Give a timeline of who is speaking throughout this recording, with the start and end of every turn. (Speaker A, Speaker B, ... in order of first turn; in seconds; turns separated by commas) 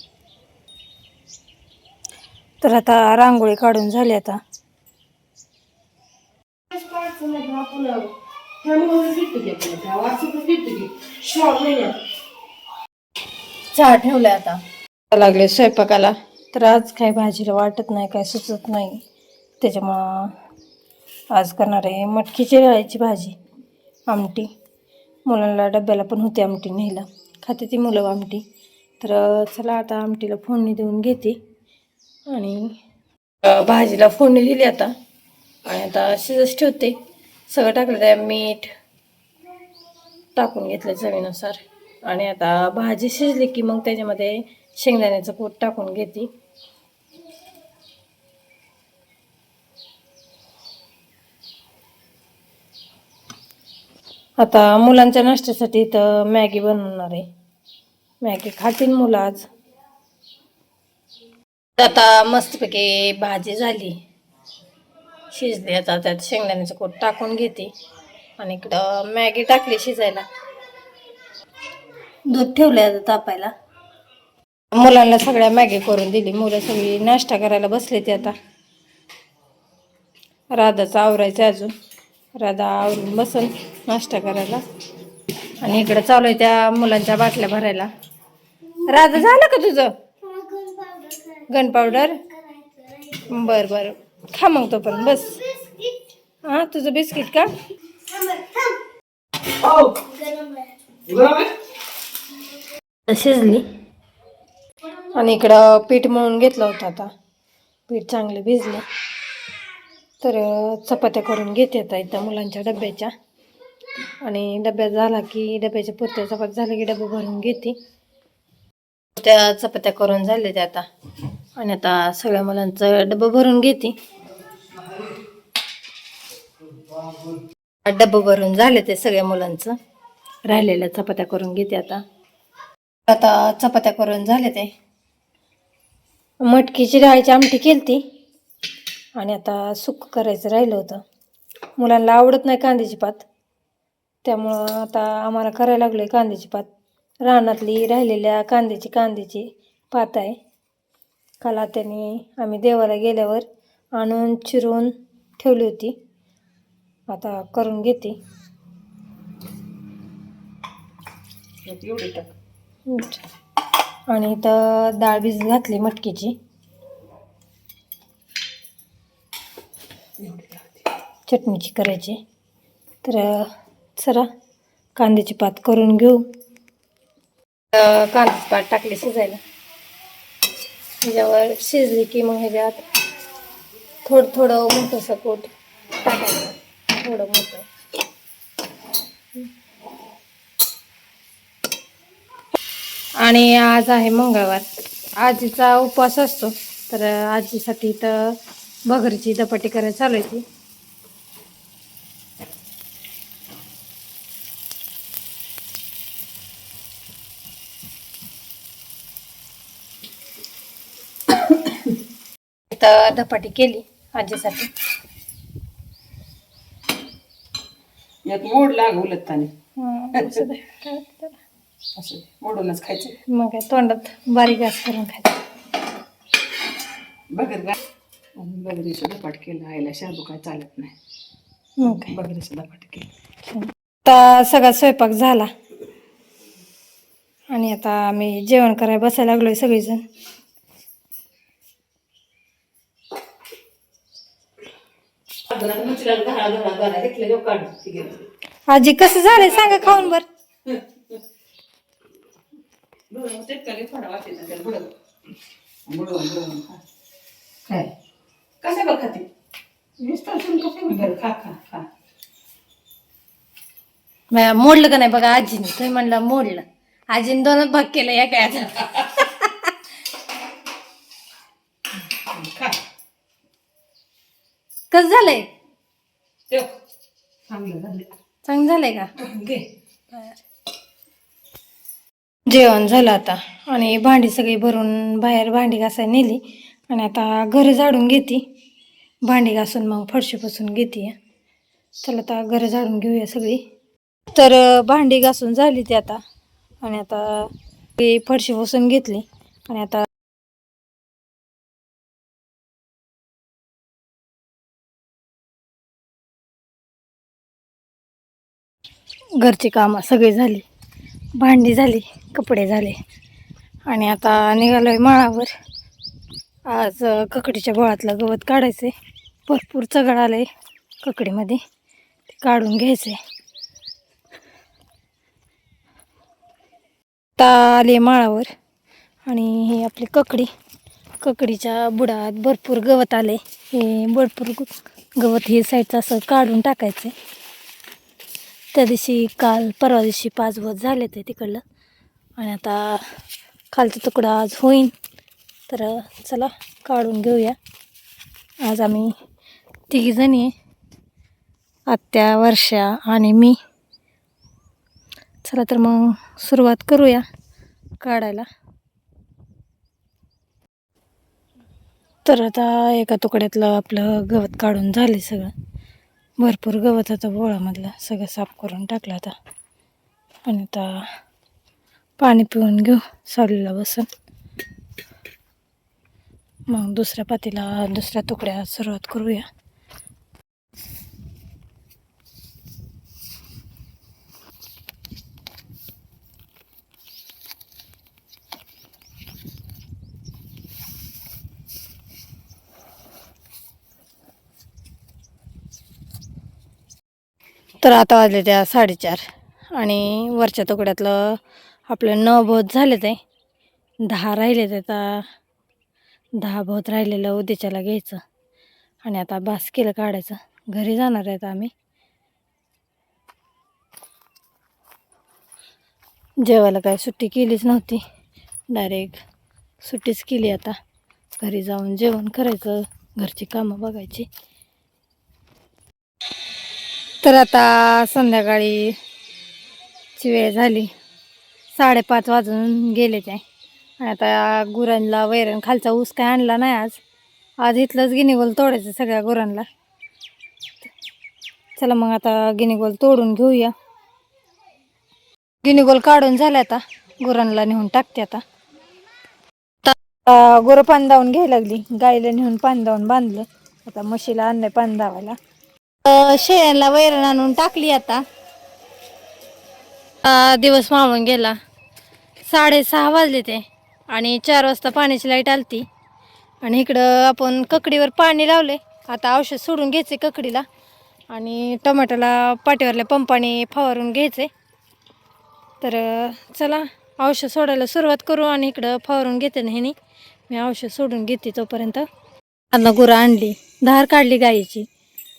Speaker A: 2.6-4.4, Speaker B: 6.7-11.9, Speaker A: 13.7-19.0, Speaker A: 19.6-20.3, Speaker A: 21.3-23.4, Speaker A: 24.1-24.5, Speaker A: 25.3-28.4, Speaker A: 29.0-31.4, Speaker A: 32.3-32.7, Speaker A: 33.4-34.9, Speaker A: 35.7-37.0, Speaker A: 37.5-38.7, Speaker A: 40.4-46.3, Speaker A: 54.4-57.3, Speaker A: 58.2-59.5, Speaker A: 61.8-64.0, Speaker A: 65.3-67.7, Speaker A: 68.4-70.3, Speaker A: 72.3-73.5, Speaker A: 74.7-78.4, Speaker A: 80.5-81.7, Speaker A: 82.4-84.6, Speaker A: 85.6-87.9, Speaker A: 88.9-92.2, Speaker A: 92.9-95.6, Speaker A: 96.4-97.5, Speaker B: 99.5-100.3, Speaker B: 101.1-101.5, Speaker A: 103.1-103.7, Speaker A: 105.0-107.1, Speaker A: 107.9-108.9, Speaker A: 110.2-113.1, Speaker A: 114.2-117.8, Speaker A: 119.2-120.9, Speaker A: 121.6-124.0, Speaker A: 127.8-129.8, Speaker A: 130.5-132.0, Speaker A: 133.1-134.7, Speaker A: 136.4-138.0, Speaker A: 139.2-141.0, Speaker A: 141.8-143.2, Speaker A: 144.2-146.7, Speaker A: 147.2-150.4, Speaker A: 151.4-156.0, Speaker A: 157.1-158.2, Speaker B: 161.7-162.3, Speaker A: 162.9-163.2, Speaker A: 164.1-166.4, Speaker B: 170.2-170.8, Speaker A: 171.3-172.2, Speaker A: 173.0-174.3, Speaker A: 175.0-176.2, Speaker A: 177.7-179.4, Speaker A: 181.0-182.8, Speaker A: 184.1-187.7, Speaker A: 193.2-194.7, Speaker A: 195.2-198.4, Speaker A: 198.9-200.4, Speaker A: 212.7-214.7, Speaker B: 218.3-219.5, Speaker A: 219.8-221.4, Speaker B: 220.1-220.4, Speaker B: 222.0-223.2, Speaker A: 223.3-225.4, Speaker B: 227.3-227.8, Speaker B: 228.4-230.9, Speaker A: 231.8-232.1, Speaker B: 231.8-233.1, Speaker A: 233.5-235.5, Speaker A: 237.5-240.0, Speaker B: 245.5-248.2, Speaker A: 248.7-250.3, Speaker B: 253.1-254.9, Speaker B: 255.9-256.8, Speaker B: 258.6-259.3, Speaker B: 260.0-261.9, Speaker A: 264.3-269.7, Speaker B: 272.1-272.8, Speaker A: 274.9-275.5, Speaker B: 277.5-278.1, Speaker A: 278.4-279.1, Speaker B: 279.2-279.7, Speaker A: 282.5-288.4, Speaker A: 289.3-291.2, Speaker A: 292.0-293.6, Speaker A: 294.3-296.2, Speaker A: 296.8-300.1, Speaker A: 309.4-310.6, Speaker A: 311.4-313.0, Speaker A: 313.9-315.5, Speaker A: 316.7-318.9, Speaker A: 319.5-320.5, Speaker A: 321.0-321.6, Speaker A: 322.3-323.2, Speaker A: 327.4-328.5, Speaker A: 329.3-330.5, Speaker A: 331.2-337.1, Speaker A: 338.7-341.6, Speaker A: 342.4-343.1, Speaker A: 343.7-344.9, Speaker A: 345.7-347.6, Speaker A: 348.6-349.1, Speaker A: 349.9-350.5, Speaker A: 351.9-353.6, Speaker A: 355.4-357.2, Speaker A: 358.0-358.5, Speaker A: 362.2-365.5, Speaker A: 366.4-369.4, Speaker A: 370.5-371.0, Speaker A: 372.2-374.1, Speaker A: 376.7-379.5, Speaker A: 397.8-403.2, Speaker A: 404.1-405.2, Speaker A: 406.4-408.2, Speaker A: 409.0-411.7, Speaker A: 416.4-418.0, Speaker A: 418.7-419.2, Speaker A: 419.8-420.8, Speaker A: 421.4-424.3, Speaker A: 427.2-429.0, Speaker A: 430.2-430.9, Speaker A: 431.8-433.4, Speaker A: 434.0-437.0, Speaker A: 437.6-439.7, Speaker A: 441.8-443.7, Speaker A: 445.6-448.4, Speaker A: 449.8-455.4, Speaker A: 456.0-458.2, Speaker A: 460.2-461.6, Speaker A: 462.5-465.9, Speaker A: 466.6-470.7, Speaker A: 471.3-474.5, Speaker A: 475.8-480.0, Speaker A: 480.5-482.1, Speaker A: 482.7-484.9